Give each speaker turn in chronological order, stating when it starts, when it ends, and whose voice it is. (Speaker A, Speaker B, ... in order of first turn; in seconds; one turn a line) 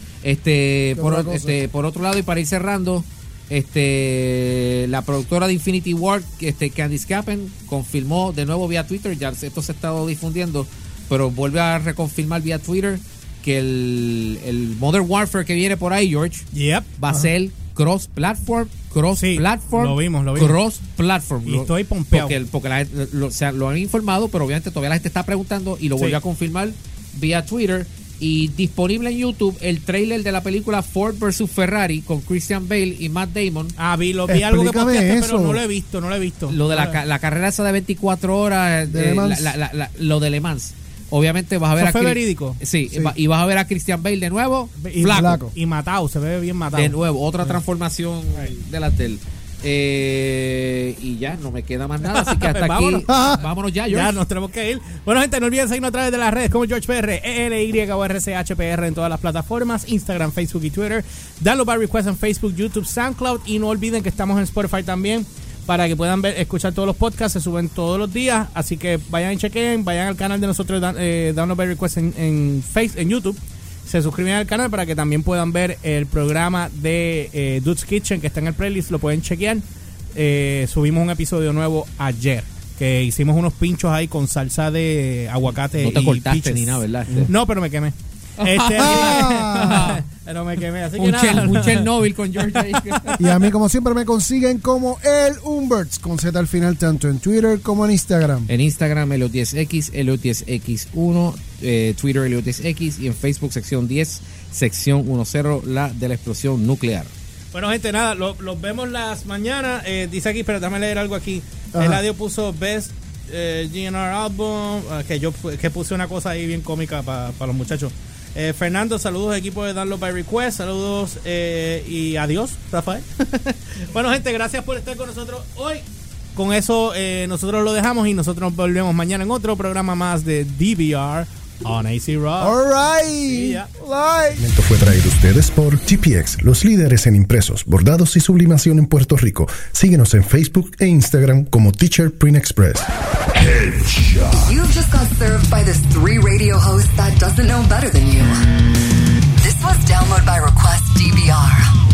Speaker A: 0.2-16.4
Speaker B: 0.9-1.6
Speaker C: 16.5-17.3
Speaker A: 17.0-33.7
Speaker C: 19.1-20.6
Speaker C: 21.4-22.4
Speaker C: 33.8-37.0
Speaker B: 34.3-35.6
Speaker A: 36.5-45.4
Speaker B: 38.9-39.5
Speaker C: 41.8-42.6
Speaker B: 42.9-43.1
Speaker C: 44.8-47.6
Speaker B: 45.1-45.5
Speaker A: 46.7-54.2
Speaker C: 52.0-53.3
Speaker B: 53.1-53.4
Speaker C: 53.9-93.3
Speaker A: 85.7-87.3
Speaker A: 88.4-90.0
Speaker B: 88.8-89.9
Speaker A: 91.0-93.2
Speaker B: 93.2-98.5
Speaker A: 98.5-107.1
Speaker C: 107.5-125.8
Speaker B: 111.7-112.0
Speaker C: 126.3-132.6
Speaker B: 132.4-134.5
Speaker C: 133.2-133.7
Speaker D: 134.4-137.9
Speaker E: 136.9-142.7
Speaker D: 139.3-140.9
Speaker D: 141.5-142.8
Speaker D: 143.6-144.1
Speaker E: 144.3-148.4
Speaker E: 149.4-151.7